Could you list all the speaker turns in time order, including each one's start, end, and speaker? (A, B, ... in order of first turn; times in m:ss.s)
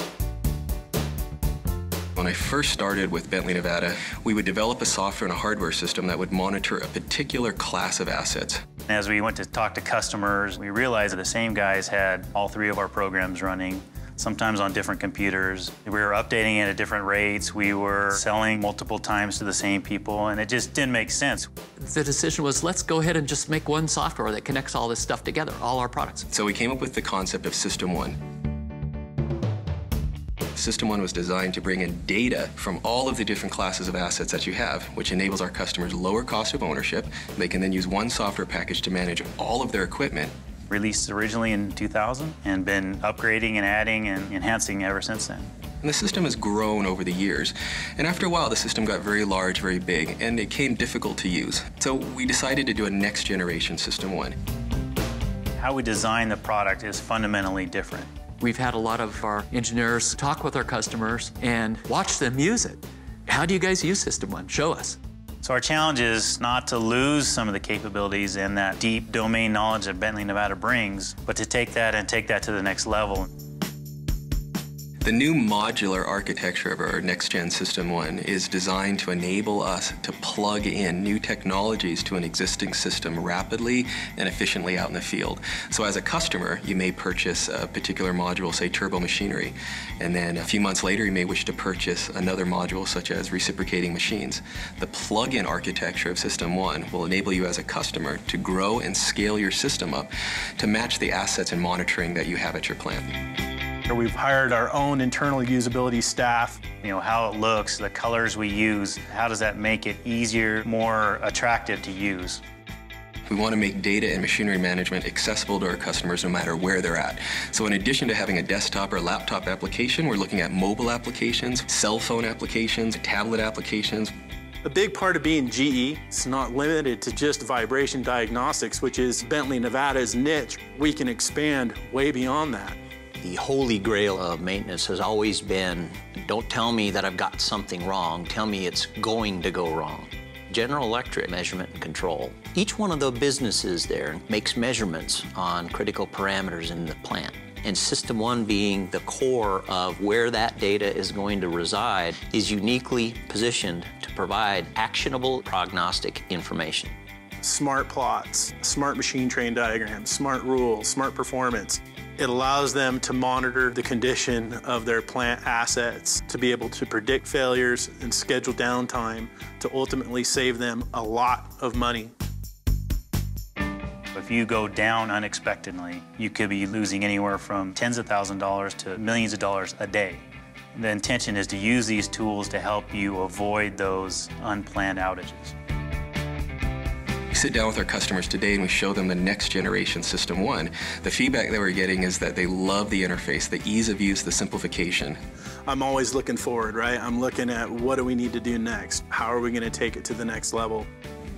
0:02.2-0:08.6 A
0:08.9-0:21.5 B
0:21.8-0:26.3 C
0:26.3-0:28.2 A
0:30.6-0:40.3 A
0:40.7-0:45.5 B
0:45.8-0:54.4 A
0:55.6-0:58.1 B
0:58.4-1:05.0 C
1:05.4-1:13.3 B
1:15.0-1:43.2 A
1:43.9-1:46.6 D
1:46.8-1:52.4 B
1:53.3-2:04.1 A
2:04.6-2:12.8 D
2:13.2-2:36.9 E
2:37.4-2:52.1 D
2:54.1-3:00.2 B
3:00.8-3:05.5 B
3:07.3-3:15.2 A
3:15.7-3:20.9 D